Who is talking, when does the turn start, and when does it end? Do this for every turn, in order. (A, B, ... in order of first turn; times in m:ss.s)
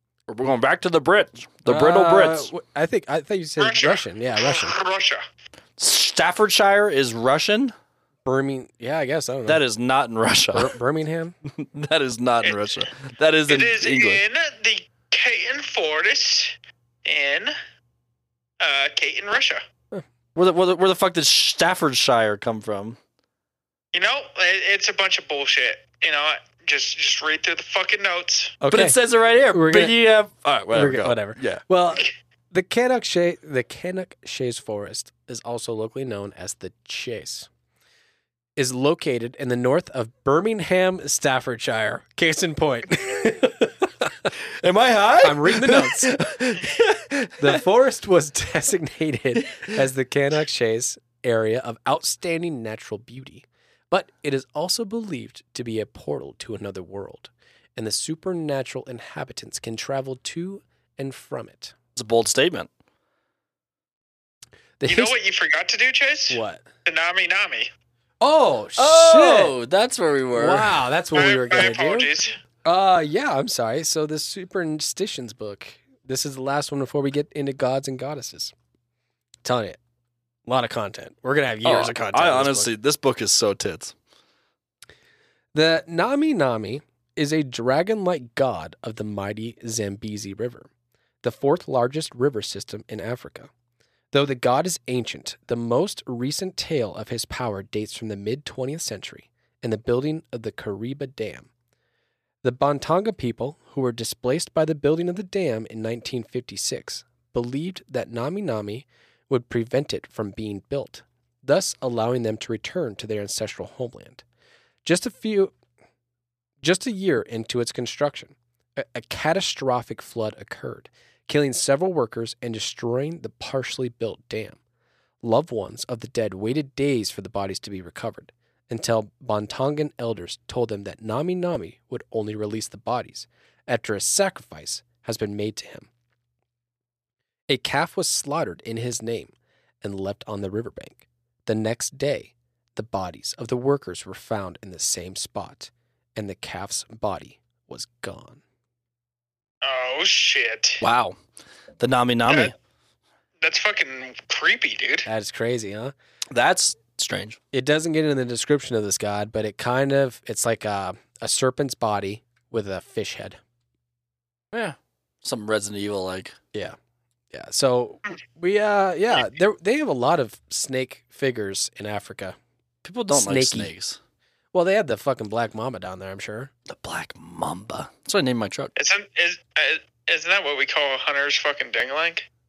0:00.3-0:02.5 A
0:01.6-0:04.8 B
0:03.6-0:05.2 C
0:05.8-0:07.7 A
0:08.2-0:09.6 B
0:09.5-0:10.7 A
0:10.5-0:11.3 B
0:11.4-0:14.2 A
0:12.4-0:12.8 C
0:13.5-0:17.5 C
0:18.6-0:19.6 C
0:20.3-0:23.0 A
0:23.9-0:28.6 C
0:28.6-0:29.0 B
0:28.7-0:31.6 A
0:29.5-0:30.0 B
0:30.7-0:37.5 B
0:38.6-0:44.3 B
0:44.4-0:47.6 A
0:45.2-0:46.2 B
0:47.4-1:01.7 B
0:49.4-0:49.7 A
1:02.0-1:02.7 A
1:04.8-1:05.1 B
1:04.9-1:07.7 C
1:06.3-1:06.6 B
1:08.2-1:09.6 B
1:08.8-1:10.8 A
1:10.3-1:12.1 B
1:11.1-1:12.4 C
1:12.6-1:18.5 B
1:19.4-1:19.8 B
1:20.4-1:22.7 B
1:21.6-1:23.9 A
1:25.5-1:30.7 B
1:31.2-1:33.5 B
1:34.1-1:41.5 B
1:42.4-1:54.2 B
1:54.8-1:55.5 B
1:56.6-2:04.6 B
2:05.2-2:15.9 B
2:17.5-2:28.4 B
2:29.6-2:30.8 C
2:30.8-2:31.2 A
2:31.8-2:32.5 A
2:32.3-2:32.5 C
2:33.4-2:35.1 C
2:35.0-2:35.9 B
2:36.3-2:37.4 A
2:37.5-2:43.4 B
2:44.5-2:46.4 A
2:47.3-2:52.4 B
2:52.8-2:54.0 A
2:53.1-2:53.7 B
2:54.5-2:56.5 B
2:56.7-2:58.7 A
2:58.8-3:02.3 C